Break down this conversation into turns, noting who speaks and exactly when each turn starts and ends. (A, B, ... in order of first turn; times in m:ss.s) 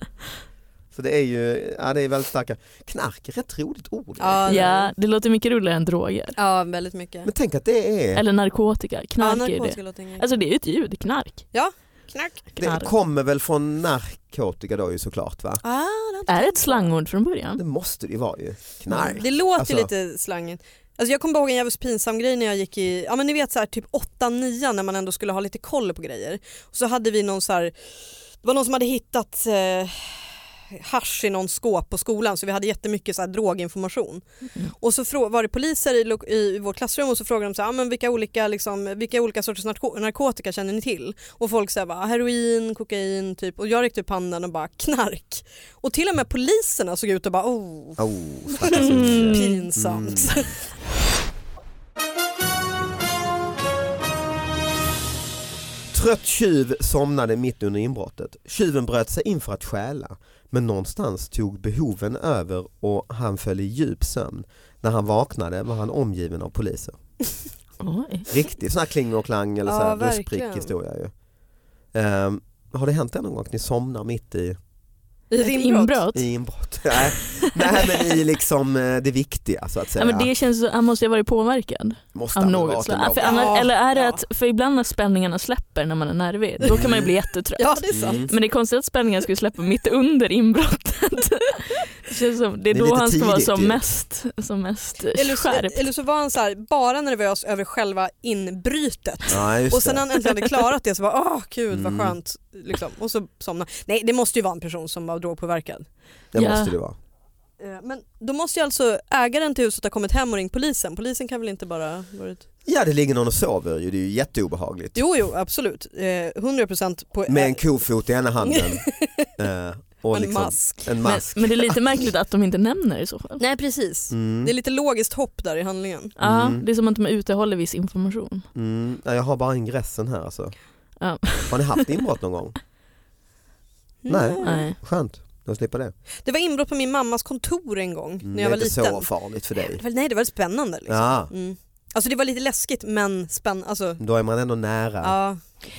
0:00.9-0:04.6 A
0:04.2-0:04.9 B
0:04.5-0:06.4 C
0:06.4-0:07.3 B
0:07.2-0:08.2 A
0:08.1-0:11.4 C
0:09.2-0:10.3 B
0:11.5-0:12.5 B
0:12.6-0:15.6 A
0:12.6-0:12.9 C
0:15.6-0:16.9 B
0:16.3-0:17.6 C
0:17.6-0:19.9 A
0:18.9-0:27.7 B
0:28.4-0:34.2 B
0:34.8-0:48.0 B
0:48.0-0:50.3 A
0:48.6-0:50.6 B
0:48.7-0:49.6 C
0:55.9-1:07.0 A
1:07.8-1:08.3 C
1:08.3-1:11.1 A
1:09.6-1:10.7 B
1:11.9-1:14.6 A
1:15.3-1:16.0 B
1:15.4-1:16.2 C
1:16.1-1:20.3 A
1:20.0-1:35.8 C
1:22.1-1:23.4 A
1:23.2-1:24.2 B
1:26.7-1:27.1 A
1:27.6-1:28.3 B
1:27.9-1:28.3 A
1:32.7-1:33.8 A
1:35.1-1:45.8 B
1:39.3-1:40.0 A
1:41.7-1:42.1 A
1:46.3-1:47.0 A
1:46.3-1:46.7 C
1:47.6-1:52.4 B
1:52.6-1:55.0 A
1:54.9-1:57.8 B
1:57.3-1:58.8 A
1:58.4-1:59.3 B
1:59.4-2:01.8 A
2:00.1-2:00.9 B
2:01.0-2:03.4 C
2:03.4-2:06.1 B
2:04.1-2:04.5 A
2:06.2-2:08.4 C
2:06.2-2:06.6 A
2:08.5-2:10.5 A
2:11.0-2:11.8 C
2:11.5-2:12.6 A
2:14.0-2:14.6 B
2:14.1-2:15.9 A
2:14.4-2:14.8 C
2:16.2-2:24.0 B
2:18.2-2:19.8 A
2:20.9-2:21.3 A
2:24.0-2:25.1 A
2:25.0-2:25.4 B